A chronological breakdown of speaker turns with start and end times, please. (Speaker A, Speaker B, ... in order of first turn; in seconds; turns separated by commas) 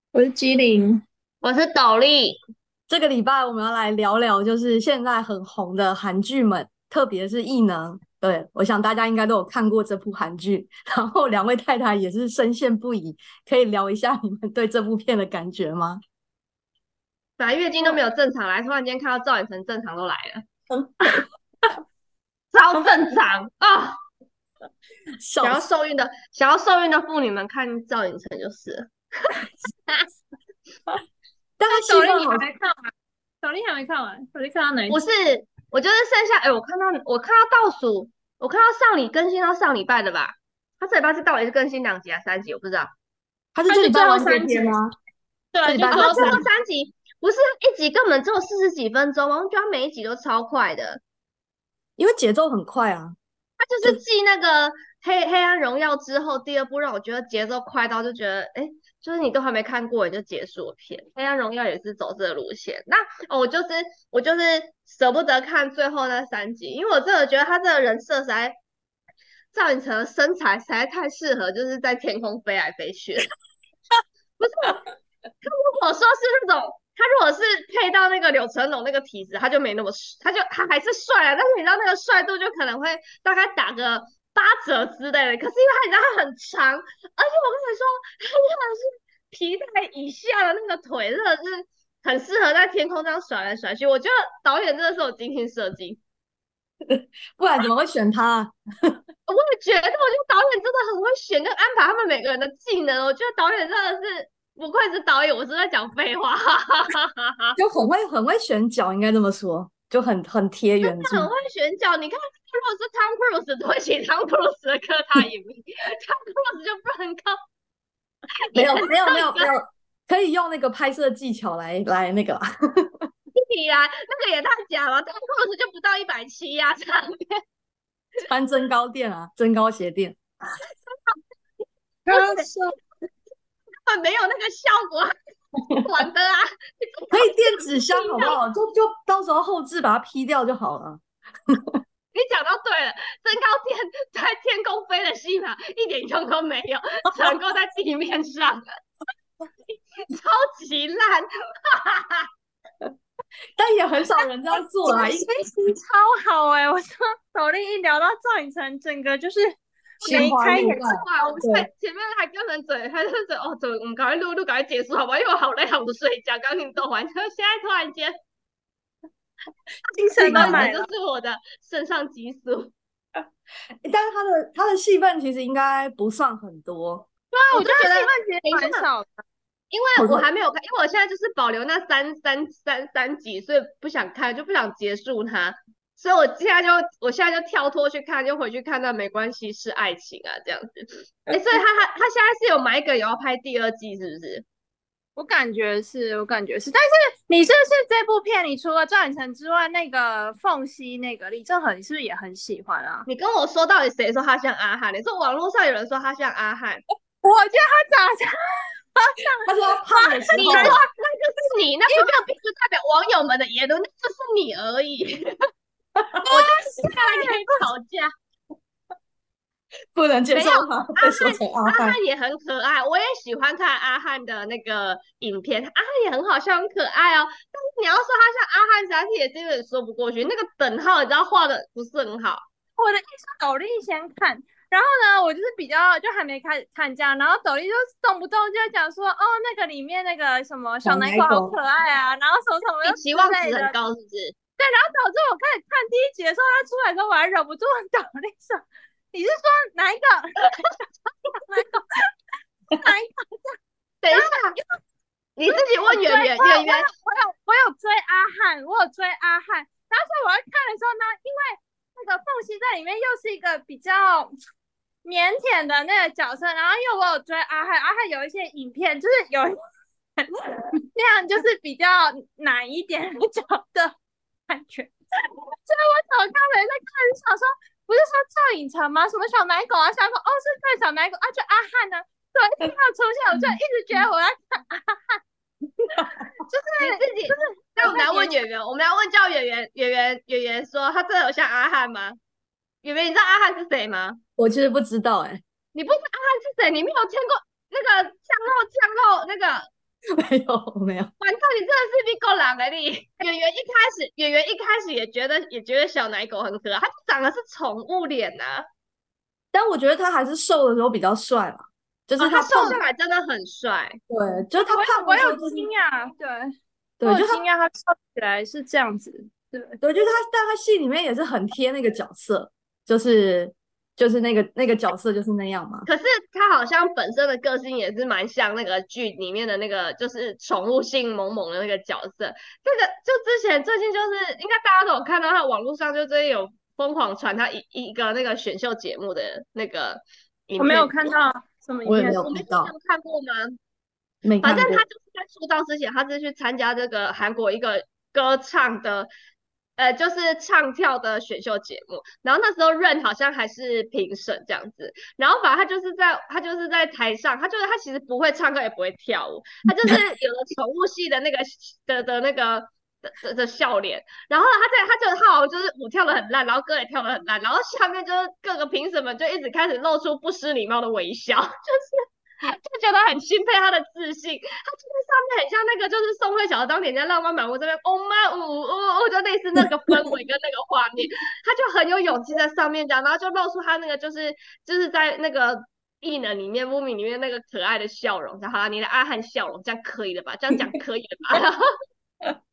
Speaker A: 0.1-1.0, Speaker B: 1.4-2.4, Speaker C: 2.9-16.0, Speaker B: 17.4-20.4, Speaker C: 20.7-21.2, Speaker B: 22.5-24.0, Speaker C: 25.2-25.6, Speaker B: 25.4-29.3, Speaker C: 31.6-32.5, Speaker A: 31.7-32.9, Speaker A: 33.4-35.0, Speaker B: 34.9-42.9, Speaker C: 43.5-44.9, Speaker A: 43.7-44.7, Speaker A: 45.5-46.4, Speaker C: 45.6-46.4, Speaker B: 45.9-51.0, Speaker C: 52.0-53.1, Speaker B: 53.6-68.6, Speaker B: 69.5-73.3, Speaker B: 74.4-74.8, Speaker B: 75.4-96.0, Speaker C: 96.9-98.9, Speaker B: 99.3-107.6, Speaker C: 107.6-111.3, Speaker B: 110.8-117.4, Speaker B: 118.5-119.5, Speaker C: 118.5-123.1, Speaker B: 123.3-127.4, Speaker C: 128.3-130.2, Speaker A: 132.1-132.8, Speaker B: 132.1-132.4, Speaker B: 133.8-135.1, Speaker B: 135.8-138.3, Speaker C: 137.1-141.8, Speaker B: 142.1-148.6, Speaker B: 150.0-152.3, Speaker C: 153.6-155.3, Speaker A: 154.8-160.8, Speaker B: 160.0-168.1, Speaker C: 160.0-161.7, Speaker A: 169.9-170.8, Speaker C: 170.2-170.7, Speaker B: 170.3-172.7, Speaker C: 173.8-177.1, Speaker A: 177.3-179.1, Speaker B: 177.5-178.8, Speaker B: 179.7-194.4, Speaker C: 180.0-180.2, Speaker A: 195.2-203.1, Speaker B: 203.1-206.8, Speaker A: 207.2-208.4, Speaker A: 208.9-210.8, Speaker C: 209.4-210.8, Speaker B: 210.3-215.3, Speaker A: 211.9-212.2, Speaker C: 216.0-216.3, Speaker A: 216.3-217.6, Speaker B: 216.3-218.1, Speaker C: 219.9-221.9, Speaker B: 220.3-232.4, Speaker A: 232.8-243.7, Speaker C: 240.8-241.5, Speaker B: 242.8-244.3, Speaker A: 244.6-250.5, Speaker A: 251.5-252.1, Speaker A: 252.8-253.6, Speaker B: 254.0-254.6, Speaker A: 254.1-254.7, Speaker B: 255.4-256.9, Speaker A: 255.5-264.3, Speaker A: 265.0-269.6, Speaker A: 270.2-273.9, Speaker A: 274.5-285.2, Speaker C: 285.8-286.3, Speaker A: 286.4-288.4, Speaker B: 286.8-292.2, Speaker B: 292.8-294.2, Speaker C: 294.4-295.4, Speaker B: 295.7-299.7, Speaker C: 300.1-301.1, Speaker B: 301.2-308.7, Speaker C: 309.5-312.8, Speaker B: 312.2-314.0, Speaker C: 314.1-315.7, Speaker A: 314.6-316.5, Speaker C: 317.0-317.4, Speaker A: 317.0-319.8, Speaker C: 319.8-325.9, Speaker B: 325.9-341.0, Speaker A: 340.6-342.2, Speaker C: 341.9-342.7, Speaker B: 342.2-343.6, Speaker C: 344.2-344.8, Speaker B: 344.4-349.1, Speaker B: 349.8-391.7